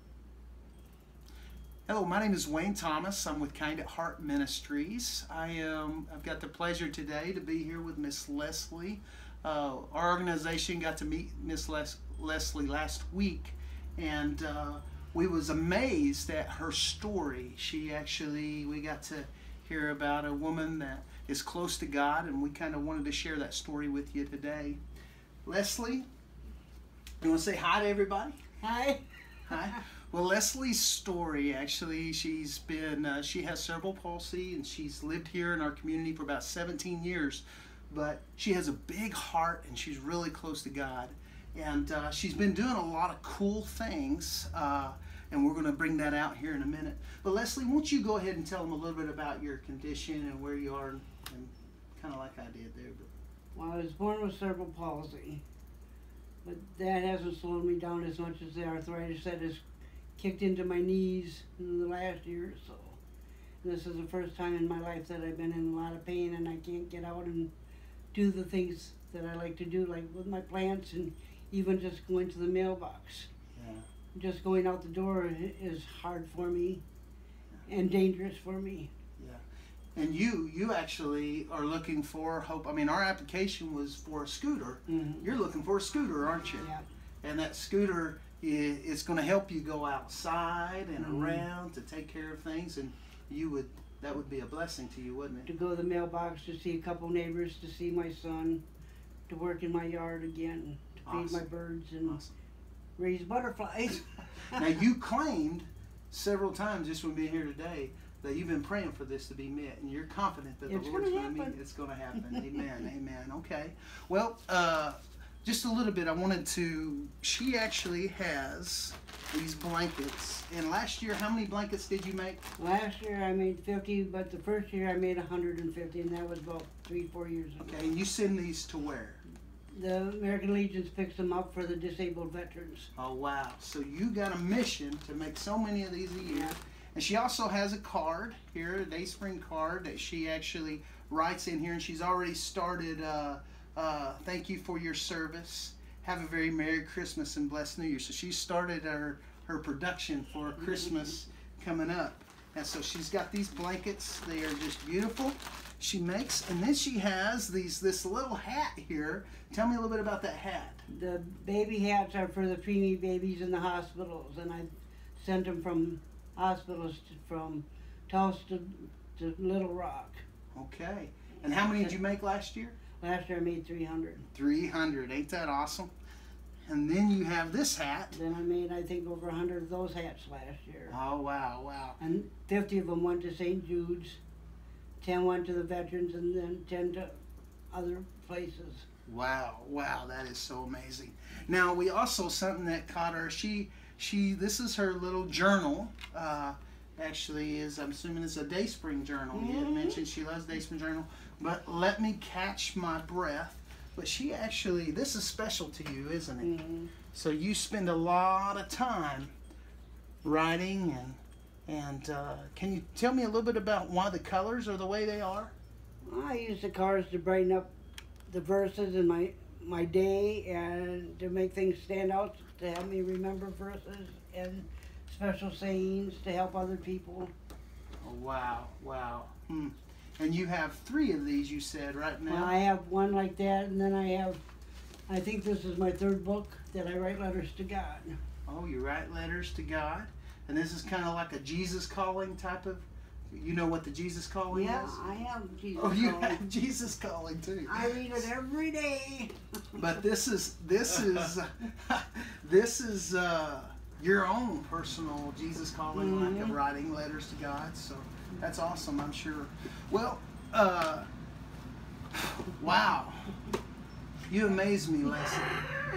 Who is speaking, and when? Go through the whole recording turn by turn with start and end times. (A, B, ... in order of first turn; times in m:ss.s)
0:01.9-0:24.8 A
0:25.4-0:26.0 A
0:27.2-0:28.4 A
0:28.6-0:29.0 B
0:29.4-0:53.1 A
0:53.5-0:55.4 B
0:56.4-0:59.6 B
1:00.2-1:03.0 B
1:03.6-1:07.5 B
1:08.1-1:13.3 B
1:13.5-1:13.9 A
1:14.1-1:16.8 B
1:17.6-1:18.9 B
1:19.2-1:19.4 A
1:20.0-1:26.7 A
1:24.9-1:25.3 B
1:26.6-1:26.8 B
1:27.2-1:35.5 A
1:31.0-1:31.4 B
1:35.4-1:38.6 B
1:39.3-1:42.2 B
1:41.0-1:41.4 A
1:42.0-1:42.3 A
1:43.0-1:44.6 B
1:44.5-2:02.4 A
1:50.7-1:51.6 B
1:52.3-1:52.6 B
2:02.6-2:07.9 B
2:07.6-2:09.2 A
2:09.7-2:12.9 B
2:13.0-2:40.8 A
2:16.3-2:16.5 B
2:40.9-2:50.2 B
2:50.5-2:52.8 A
2:51.6-2:51.9 B
2:53.0-2:54.2 B
2:54.2-2:55.9 A
2:56.7-2:58.2 A
2:58.1-3:01.0 B
3:00.9-3:02.0 A
3:02.0-3:04.2 B
3:05.0-3:07.1 B
3:07.7-3:08.8 B
3:09.0-3:26.5 A
3:19.3-3:20.0 B
3:26.4-3:26.9 B
3:27.1-3:29.3 A
3:30.2-3:35.5 A
3:36.0-3:37.7 B
3:38.3-3:47.3 B
3:48.0-3:52.5 A
3:52.3-3:54.4 B
3:55.1-3:58.2 B
3:58.5-4:05.0 A
4:04.5-4:06.5 B
4:05.8-4:08.3 A
4:07.6-4:09.9 B
4:09.7-4:21.1 A
4:15.9-4:16.6 B
4:22.3-4:23.4 A
4:24.3-4:25.6 A